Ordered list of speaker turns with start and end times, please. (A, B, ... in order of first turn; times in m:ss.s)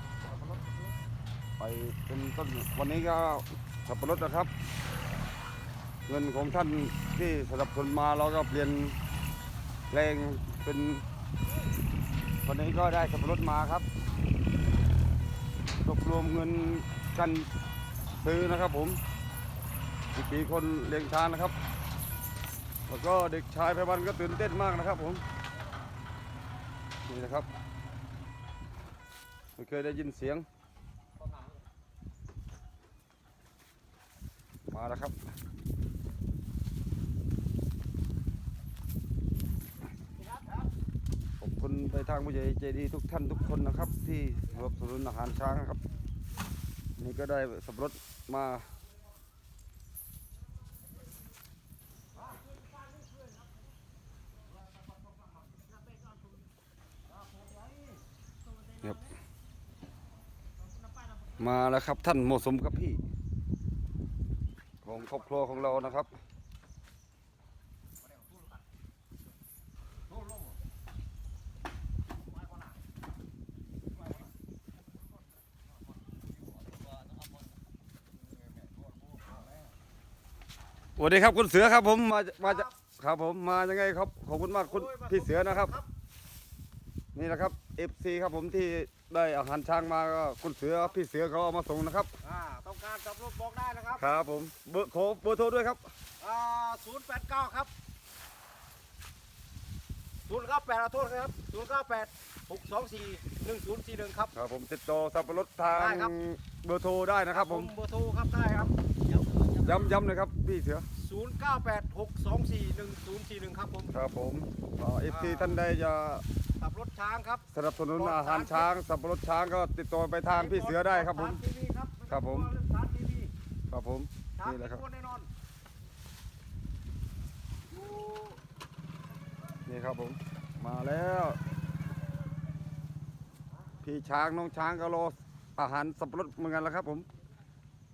0:00.3-0:00.7 A
0:01.6-0:04.5 B
0:06.1-0:09.0 B
0:09.9-0:11.0 B
0:12.4-0:13.9 B
0:15.8-0:17.5 B
0:18.2-0:19.0 B
0:20.1-0:21.6 B
0:22.9-0:25.2 B
0:27.1-0:27.5 B
0:29.6-0:30.4 B
0:34.7-0:35.2 B
0:41.4-0:45.8 B
0:47.0-0:48.7 B
0:58.8-0:59.1 B
1:01.4-1:03.0 B
1:04.8-1:06.1 B
1:21.0-1:25.7 B
1:22.4-1:22.7 A
1:24.6-1:25.9 A
1:27.2-1:32.1 B
1:32.2-1:34.0 A
1:34.0-1:35.8 B
1:36.2-1:37.7 A
1:40.3-1:44.3 A
1:44.3-1:47.7 B
1:45.7-1:46.1 A
1:47.3-1:48.8 A
1:49.6-1:50.9 B
1:51.0-1:53.9 A
1:53.9-1:56.2 B
1:55.1-1:55.6 A
1:56.6-1:58.7 A
1:57.5-2:01.4 B
2:00.3-2:03.3 A
2:02.1-2:02.5 B
2:03.7-2:04.8 B
2:04.4-2:05.3 A
2:07.8-2:08.3 A
2:09.7-2:11.4 B
2:13.8-2:17.1 B